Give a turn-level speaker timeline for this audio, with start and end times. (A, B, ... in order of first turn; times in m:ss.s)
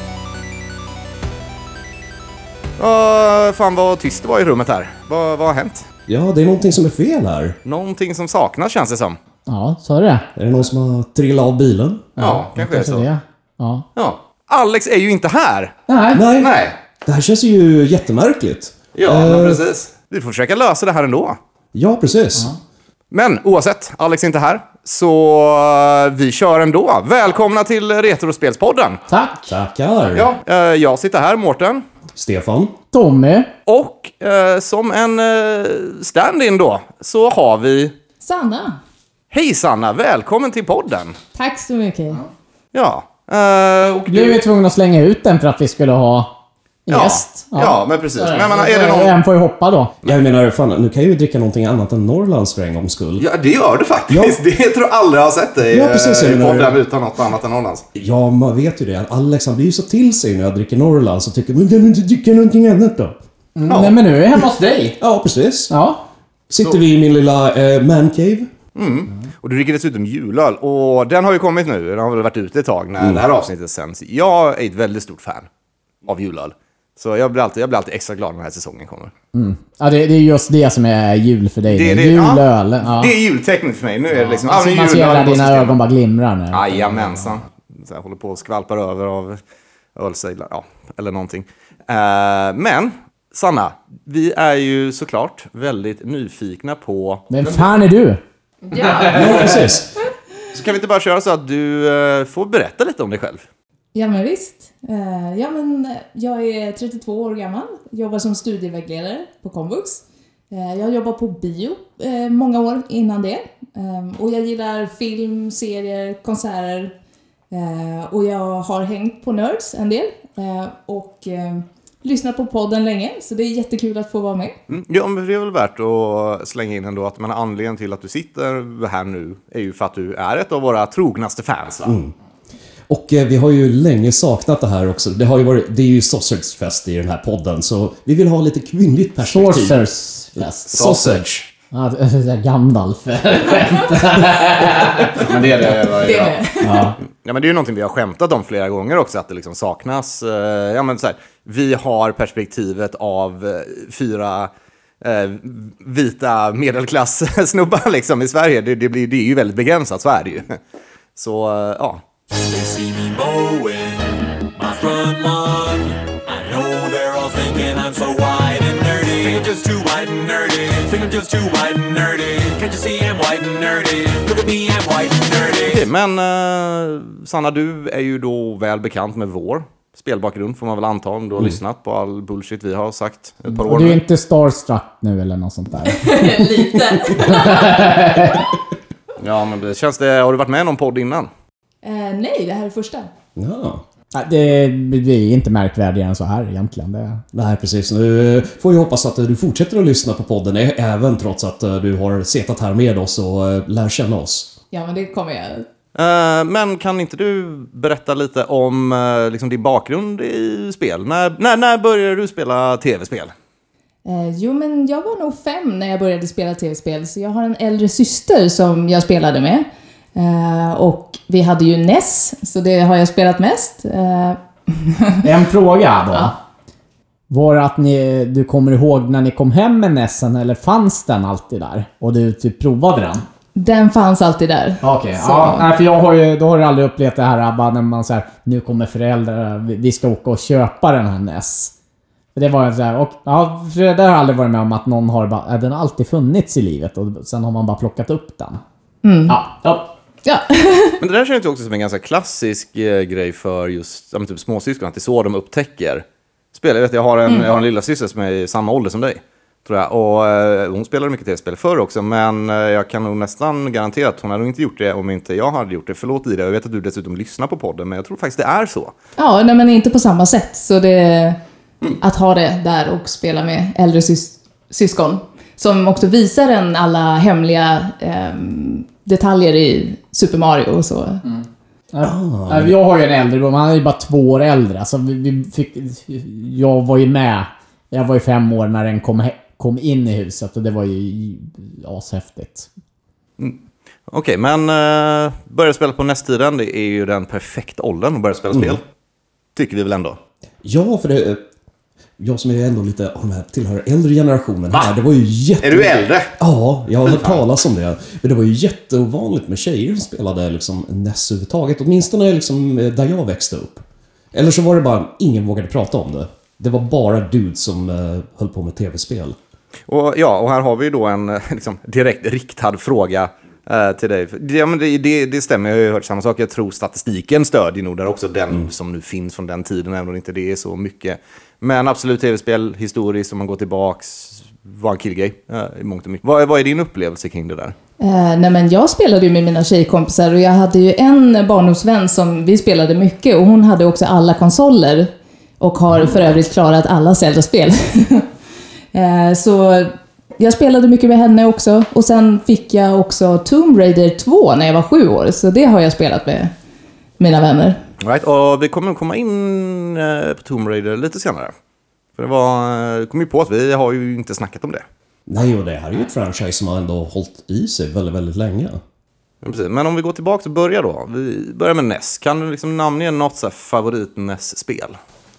0:02.8-0:05.8 A
0:06.1-0:07.6 B
0:07.6-0:09.2 A
0:09.5-0:10.2 C
0:10.4-0:12.1 B
0:12.2-0:13.8 C
0:12.2-0:13.1 A
0:14.0-0:15.8 A
0:15.9-0:16.2 C
0:16.1-0:16.5 B
0:16.4-0:16.7 A
0:17.0-0:19.6 B
0:18.9-0:21.4 A
0:21.7-0:22.5 B
0:23.1-0:29.0 A
0:29.1-0:29.5 C
0:29.5-0:30.3 B
0:30.1-0:31.8 A
0:32.1-0:32.7 B
0:32.9-0:33.5 C
0:33.7-0:37.9 A
0:38.2-0:38.8 D
0:39.3-0:41.2 A
0:41.3-0:42.2 D
0:42.7-0:44.4 A
0:44.1-0:46.3 C
0:46.9-0:49.9 C
0:46.9-0:49.1 A
0:50.0-0:53.2 B
0:53.2-0:57.8 A
0:54.1-0:54.4 B
0:55.7-0:56.7 B
0:58.0-1:03.2 B
1:03.6-1:05.0 C
1:03.7-1:04.0 A
1:05.0-1:05.7 B
1:05.7-1:06.0 C
1:06.5-1:08.5 B
1:08.8-1:15.5 A
1:13.0-1:13.2 B
1:16.0-1:19.1 A
1:19.3-1:23.1 C
1:21.6-1:25.8 A
1:24.4-1:27.0 C
1:26.5-1:29.4 A
1:30.0-1:37.7 A
1:37.3-1:38.2 C
1:38.6-1:39.5 D
1:39.0-1:39.6 C
1:39.1-1:39.9 B
1:40.5-1:43.4 A
1:43.9-1:56.9 D
1:57.5-2:04.6 D
2:04.7-2:11.9 A
2:11.8-2:12.1 B
2:12.9-2:19.8 B
2:19.2-2:20.7 C
2:20.4-2:21.3 B
2:20.7-2:21.4 A
2:21.7-2:25.2 C
2:25.0-2:26.4 A
2:25.9-2:26.9 D
2:26.6-2:27.0 C
2:27.1-2:34.5 A
2:35.0-2:40.6 A
2:41.2-2:42.0 A
2:42.3-2:55.8 E
2:55.7-3:04.0 A
3:03.5-3:06.3 C
3:05.9-3:07.9 D
3:07.2-3:08.5 C
3:09.2-3:11.3 A
3:11.8-3:13.1 D
3:13.4-3:13.8 B
3:14.1-3:17.2 C
3:17.3-3:24.5 B
3:24.7-3:25.6 D
3:25.9-3:33.3 A
3:34.0-3:45.2 D
3:45.2-3:46.4 C
3:47.3-3:53.2 C
3:53.5-3:55.6 D
3:54.8-4:01.7 C
4:02.3-4:08.6 C
4:09.0-4:09.4 D
4:09.3-4:09.9 C
4:10.2-4:11.0 D
4:11.0-4:28.9 A
4:29.2-4:31.4 D
4:32.0-4:41.2 D
4:41.2-4:52.7 C
4:42.0-4:42.7 B
4:53.4-4:58.8 A
4:58.5-4:58.8 B
4:59.6-5:00.2 A
5:00.6-5:01.4 B
5:02.2-5:19.4 B
5:05.6-5:06.3 A
5:07.0-5:07.4 A
5:19.9-5:37.7 A
5:38.0-5:48.3 D
5:48.9-5:56.5 D
5:57.2-5:57.8 D
5:58.0-6:01.5 A
6:02.2-6:04.8 A
6:05.3-6:08.8 B
6:09.4-6:15.0 A